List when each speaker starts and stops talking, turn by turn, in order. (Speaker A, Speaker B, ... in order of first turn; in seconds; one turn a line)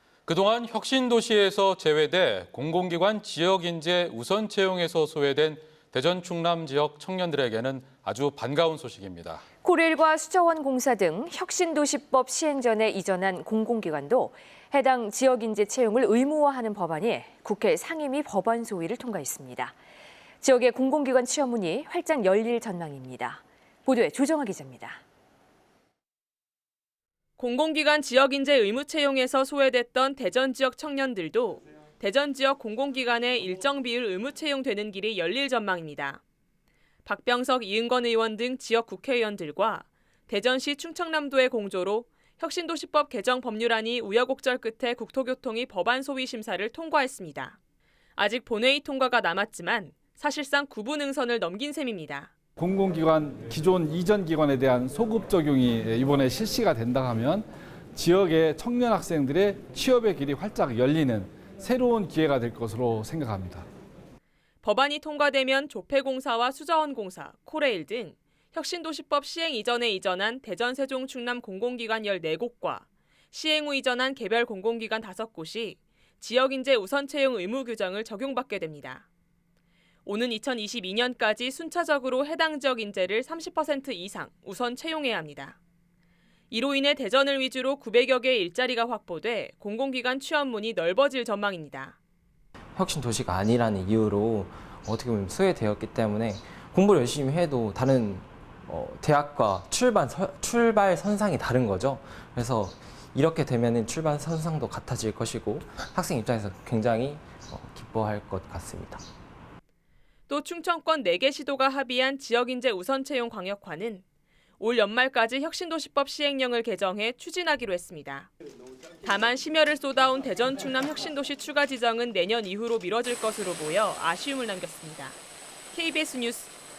Speaker A: 0.2-9.4
Speaker B: 9.6-19.7
Speaker B: 20.4-25.0
Speaker C: 27.4-36.2
Speaker C: 37.0-47.6
Speaker C: 48.2-52.3
Speaker D: 52.6-63.6
Speaker C: 64.6-79.0
Speaker C: 80.0-85.6
Speaker C: 86.5-92.0
Speaker E: 92.8-109.0
Speaker C: 110.3-114.0
Speaker C: 114.6-118.3
Speaker C: 119.0-125.2
Speaker C: 125.7-126.5